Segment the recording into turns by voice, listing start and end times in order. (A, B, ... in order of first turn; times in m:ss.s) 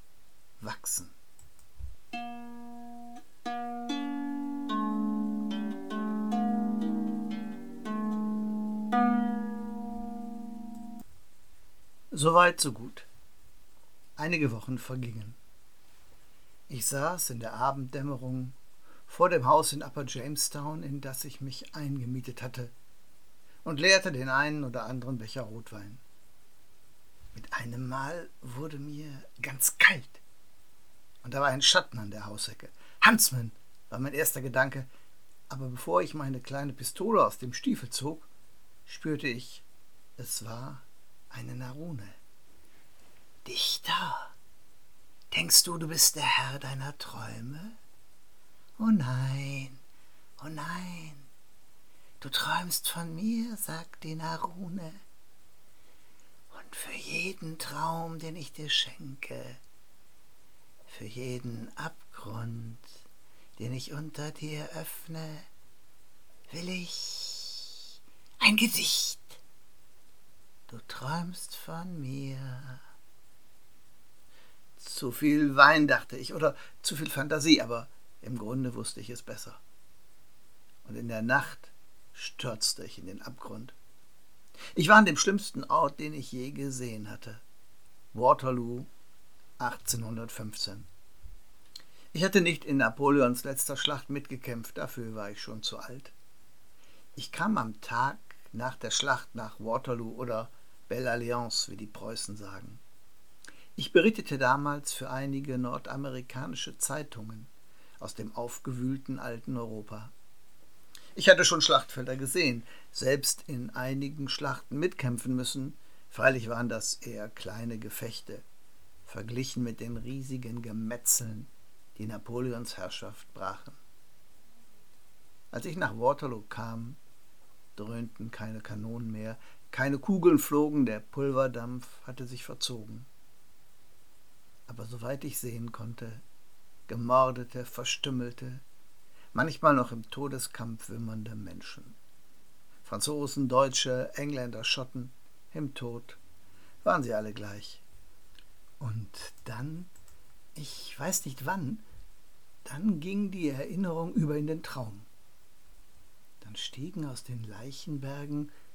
0:00.6-0:01.1 A
0:12.1-0:13.1 A
0:14.2-0:15.4 A
0:16.7-0:18.6 A
0:19.1-0:22.7 A
0:23.6-0:26.0 A
0:27.3-0:30.2 A
0:31.2-0:34.9 A
0:35.5-0:38.3 A
0:38.9-0:39.6 A
0:40.2-0:42.2 A
0:43.4-0:44.4 A
0:45.3-0:47.8 A
0:48.8-0:49.8 A
0:50.4-0:51.3 A
0:52.2-0:55.0 A
0:56.5-0:59.6 A
1:00.9-1:02.9 A
1:03.6-1:05.5 A
1:06.5-1:07.8 A
1:08.4-1:09.4 A
1:10.7-1:12.8 A
1:14.8-1:19.6 A
1:20.8-1:23.8 A
1:24.8-1:27.4 A
1:28.1-1:28.9 A
1:29.6-1:30.9 A
1:32.1-1:36.1 A
1:37.2-1:42.8 A
1:43.8-1:50.1 A
1:51.1-1:58.4 A
1:59.1-2:03.8 A
2:05.5-2:07.0 A
2:07.8-2:13.1 A
2:14.7-2:16.2 A
2:16.9-2:18.6 A
2:19.3-2:22.0 A
2:22.8-2:26.2 A
2:26.8-2:27.8 A
2:28.8-2:29.9 A
2:30.5-2:31.8 A
2:32.6-2:35.1 A
2:36.4-2:38.5 A